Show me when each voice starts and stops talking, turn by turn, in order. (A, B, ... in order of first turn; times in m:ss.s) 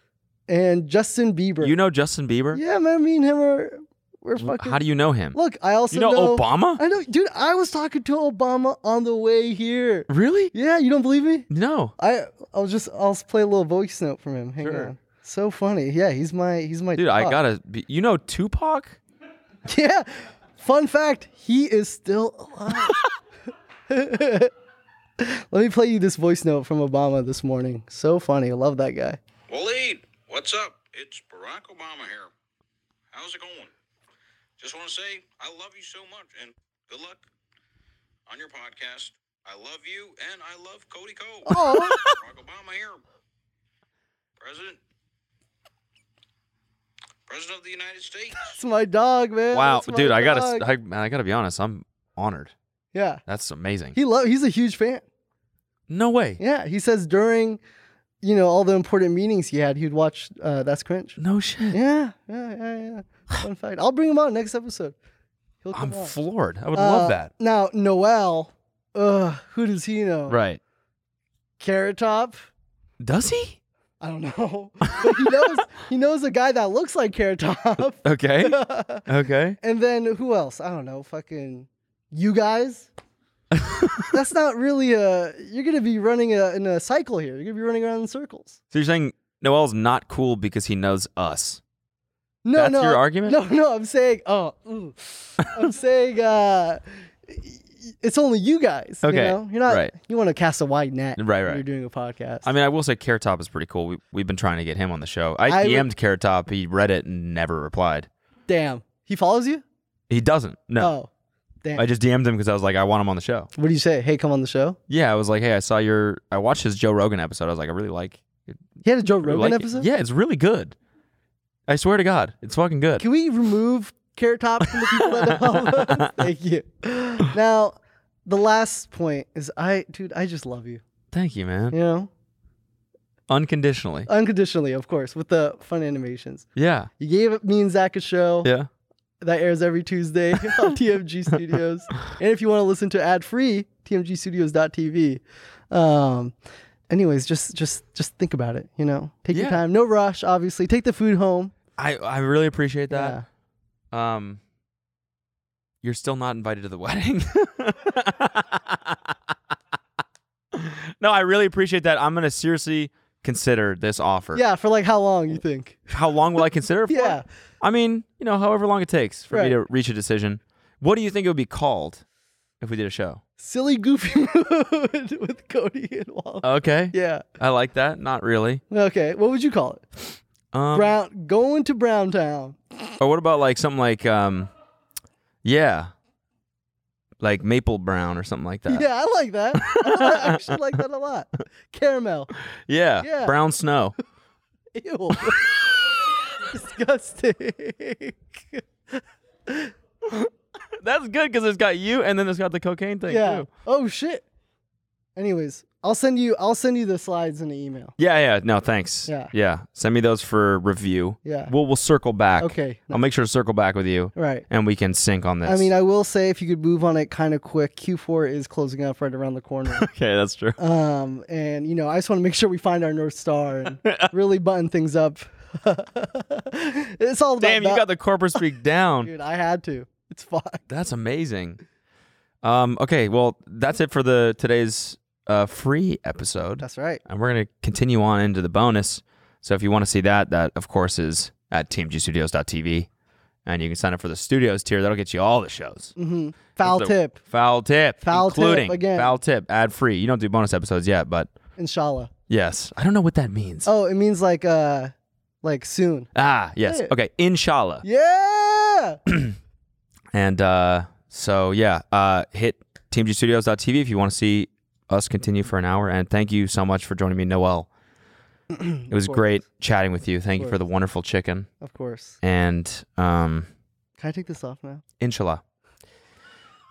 0:00.5-0:01.8 A
0:01.6-0:02.6 B
0:02.5-0:04.8 A
0:04.4-0:05.4 B
0:05.3-0:17.4 A
0:05.9-0:06.8 B
0:10.1-0:10.5 B
0:11.5-0:11.9 B
0:14.6-0:14.9 B
0:17.0-0:19.0 B
0:19.6-0:23.0 A
0:23.9-0:24.5 A
0:25.2-0:29.2 A
0:29.5-0:32.3 C
0:33.1-0:33.7 C
0:34.6-0:37.2 C
0:38.3-0:41.6 C
0:41.5-0:42.2 A
0:41.5-0:42.1 B
0:42.2-0:43.0 C
0:44.4-0:44.8 C
0:47.3-0:48.6 C
0:48.4-0:50.7 A
0:49.5-0:52.5 B
0:52.9-0:53.2 A
0:53.2-0:54.0 B
0:53.9-0:55.0 A
0:55.9-0:56.4 B
0:56.4-0:57.6 A
0:58.2-1:01.2 A
1:01.2-1:01.8 B
1:01.7-1:05.0 A
1:05.6-1:06.2 A
1:05.7-1:07.3 B
1:06.7-1:10.4 A
1:10.3-1:10.6 B
1:11.6-1:12.5 A
1:13.0-1:13.6 B
1:14.0-1:19.1 A
1:14.9-1:15.4 B
1:18.0-1:19.6 B
1:19.6-1:22.9 A
1:23.5-1:24.1 B
1:24.1-1:28.6 A
1:28.7-1:31.6 B
1:32.4-1:42.5 A
1:32.6-1:33.4 B
1:39.0-1:39.9 B
1:41.2-1:41.6 B
1:42.4-1:48.1 B
1:45.5-1:45.9 A
1:48.5-1:49.6 A
1:50.1-1:50.9 B
1:50.8-1:51.1 A
1:51.7-1:53.5 B
1:53.5-1:54.8 A
1:54.9-1:58.6 B
1:58.8-1:59.9 A
1:59.2-2:00.7 B
2:01.7-2:03.0 B
2:03.0-2:10.8 A
2:04.7-2:06.2 B
2:11.1-2:11.8 B
2:11.7-2:12.1 A
2:13.3-2:14.1 B
2:14.1-2:16.5 A
2:16.6-2:16.9 B
2:17.0-2:18.5 A
2:19.2-2:26.4 A
2:26.9-2:31.5 A
2:29.3-2:29.6 B
2:31.8-2:33.2 B
2:32.9-2:33.2 A
2:33.9-2:34.4 B
2:35.8-2:39.1 B
2:40.5-2:44.4 B
2:44.3-2:45.9 A
2:45.9-2:52.0 B
2:46.9-2:47.2 A
2:49.3-2:49.6 A
2:52.6-2:53.2 B
2:53.4-2:57.2 A
2:56.4-2:58.6 B
2:58.7-2:59.8 A
3:00.5-3:01.0 B
3:00.7-3:02.9 A
3:03.0-3:04.5 B
3:05.4-3:05.9 B
3:07.2-3:08.8 B
3:08.7-3:12.3 A
3:09.5-3:10.6 B
3:12.7-3:13.9 B
3:13.0-3:13.4 A
3:14.7-3:15.5 A
3:16.5-3:19.7 A
3:20.1-3:23.5 B
3:23.1-3:24.2 A
3:25.2-3:27.9 A
3:28.0-3:35.7 B
3:29.0-3:29.3 A
3:31.2-3:31.5 A
3:32.4-3:33.0 A
3:34.1-3:34.5 A
3:35.4-3:39.9 A
3:39.7-3:40.6 B
3:40.6-3:48.4 A
3:43.8-3:44.1 B
3:47.4-3:49.1 B
3:49.0-3:50.6 A
3:50.7-3:51.6 B
3:52.4-4:02.9 B
3:56.6-3:57.0 A
4:03.4-4:05.9 B
4:06.0-4:07.2 A
4:06.6-4:11.3 B
4:08.0-4:09.2 A
4:11.6-4:12.1 A
4:12.3-4:13.7 B
4:13.6-4:16.1 A
4:16.1-4:17.8 B
4:16.6-4:16.9 A
4:17.8-4:19.0 A
4:19.1-4:19.3 B
4:20.1-4:27.7 B
4:28.5-4:29.4 A
4:28.9-4:31.5 B
4:31.6-4:32.2 A
4:32.2-4:33.5 B
4:34.0-4:34.8 A
4:35.0-4:35.4 B